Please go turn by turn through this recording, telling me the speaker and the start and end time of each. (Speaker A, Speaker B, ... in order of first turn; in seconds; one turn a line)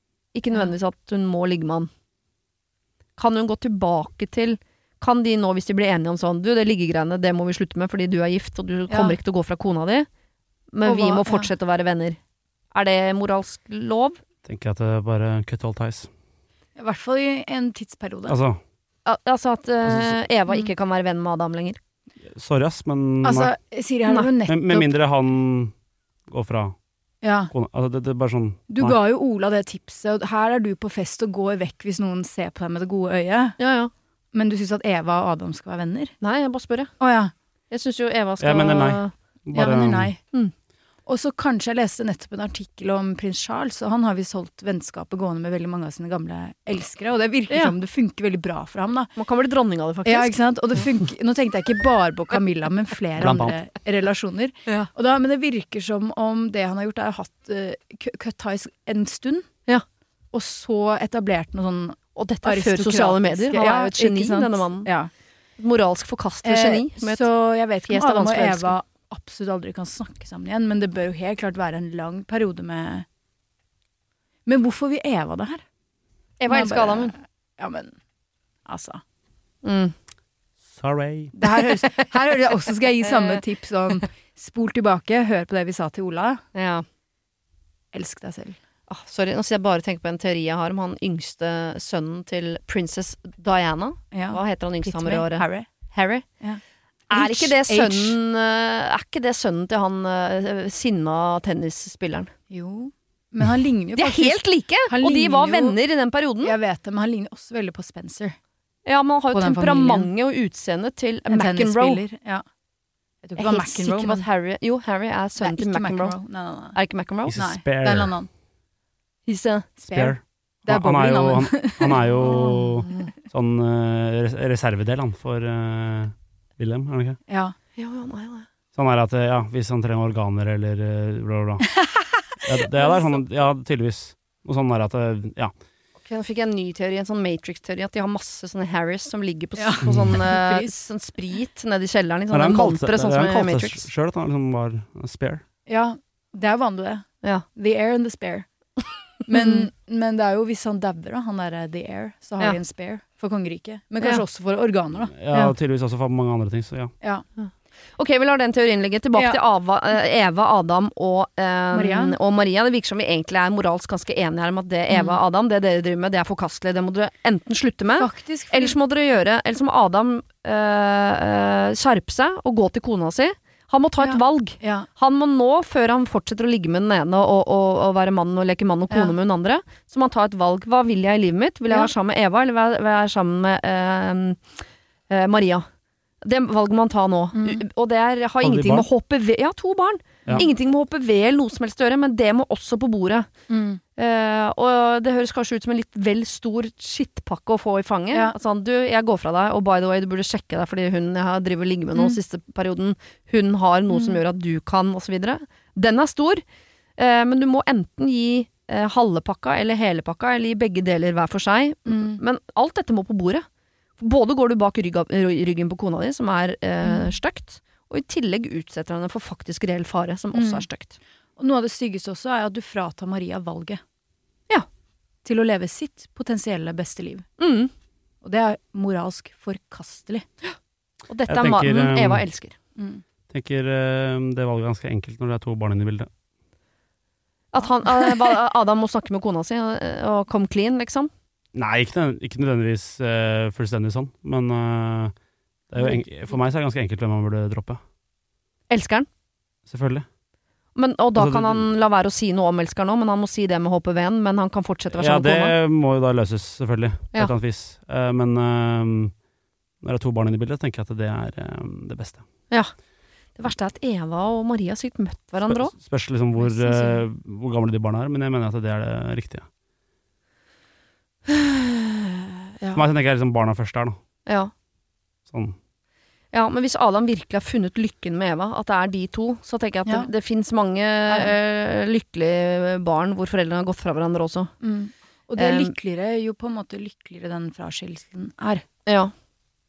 Speaker A: 0.3-1.9
Speaker A: 3.2-10.1
Speaker B: 8.9-9.2
Speaker A: 10.7-12.2
Speaker B: 10.8-11.5
Speaker A: 12.7-14.2
Speaker C: 14.4-16.1
Speaker B: 16.8-18.4
Speaker C: 18.3-18.6
Speaker A: 19.1-21.8
Speaker C: 19.9-20.2
Speaker C: 22.3-23.5
Speaker B: 23.2-24.9
Speaker C: 24.5-25.7
Speaker C: 26.3-26.7
Speaker B: 27.2-27.5
Speaker C: 27.5-29.0
Speaker B: 28.7-33.6
Speaker A: 33.6-33.9
Speaker B: 34.3-36.1
Speaker A: 36.2-36.9
Speaker B: 37.0-37.3
Speaker A: 37.7-39.1
Speaker C: 38.4-40.1
Speaker B: 39.5-40.2
Speaker B: 41.1-49.1
Speaker A: 47.5-47.7
Speaker A: 49.1-50.4
Speaker B: 50.0-59.5
Speaker C: 53.2-53.6
Speaker B: 60.3-65.1
Speaker A: 62.1-64.9
Speaker A: 65.6-67.3
Speaker B: 66.4-73.0
Speaker A: 67.9-68.7
Speaker B: 74.5-75.6
Speaker A: 76.4-77.1
Speaker B: 76.5-78.0
Speaker B: 78.7-79.0
Speaker A: 79.6-80.0
Speaker C: 80.7-81.3
Speaker B: 81.3-86.4
Speaker A: 83.1-83.4
Speaker A: 86.5-86.8
Speaker B: 87.9-88.6
Speaker A: 88.9-96.2
Speaker B: 94.1-95.7
Speaker B: 96.4-98.2
Speaker A: 97.1-102.3
Speaker B: 102.5-105.8
Speaker A: 104.0-106.5
Speaker B: 106.4-108.4
Speaker A: 108.9-112.0
Speaker B: 109.3-110.1
Speaker B: 111.3-112.4
Speaker B: 113.2-114.2
Speaker A: 113.4-116.2
Speaker B: 115.4-116.8
Speaker A: 116.7-117.4
Speaker C: 117.3-118.2
Speaker B: 117.3-118.3
Speaker A: 119.3-119.7
Speaker B: 119.8-123.1
Speaker C: 119.8-127.2
Speaker A: 122.2-122.5
Speaker B: 127.3-127.5
Speaker A: 127.8-128.5
Speaker C: 128.7-131.7
Speaker B: 131.7-132.1
Speaker C: 132.4-135.5
Speaker B: 132.8-133.1
Speaker A: 136.0-143.9
Speaker B: 139.6-140.9
Speaker C: 139.8-140.2
Speaker C: 142.3-145.4
Speaker B: 145.7-148.4
Speaker B: 149.3-155.6
Speaker C: 155.1-156.9
Speaker A: 157.4-184.4
Speaker B: 161.7-162.2
Speaker B: 164.9-165.2
Speaker B: 168.0-168.8
Speaker B: 174.0-174.9
Speaker B: 178.9-179.2
Speaker A: 185.1-185.7
Speaker A: 186.2-193.3
Speaker B: 187.3-187.7
Speaker C: 188.4-188.9
Speaker B: 193.5-193.8
Speaker A: 194.0-206.4
Speaker B: 203.9-204.2
Speaker A: 207.0-213.5
Speaker B: 211.9-212.2
Speaker A: 214.0-221.0
Speaker B: 216.8-217.1
Speaker B: 220.3-220.7
Speaker B: 221.4-223.8
Speaker B: 225.2-227.3
Speaker A: 227.4-227.7
Speaker B: 228.2-230.3
Speaker A: 231.1-232.6
Speaker C: 231.3-232.3
Speaker B: 232.8-233.0
Speaker C: 233.3-236.1
Speaker A: 237.5-241.1
Speaker C: 241.6-245.1
Speaker C: 245.7-247.8
Speaker A: 248.7-249.1
Speaker C: 249.7-250.1
Speaker A: 250.8-255.6
Speaker C: 251.2-251.8
Speaker C: 254.9-259.1
Speaker C: 259.8-262.3
Speaker A: 263.4-265.7
Speaker C: 265.5-269.5
Speaker A: 266.4-267.0
Speaker A: 271.3-272.0
Speaker C: 272.7-274.0
Speaker A: 274.3-274.5
Speaker C: 275.3-275.6
Speaker A: 276.3-284.5
Speaker B: 279.9-280.1
Speaker B: 284.6-288.6
Speaker A: 285.4-285.7
Speaker A: 288.9-289.1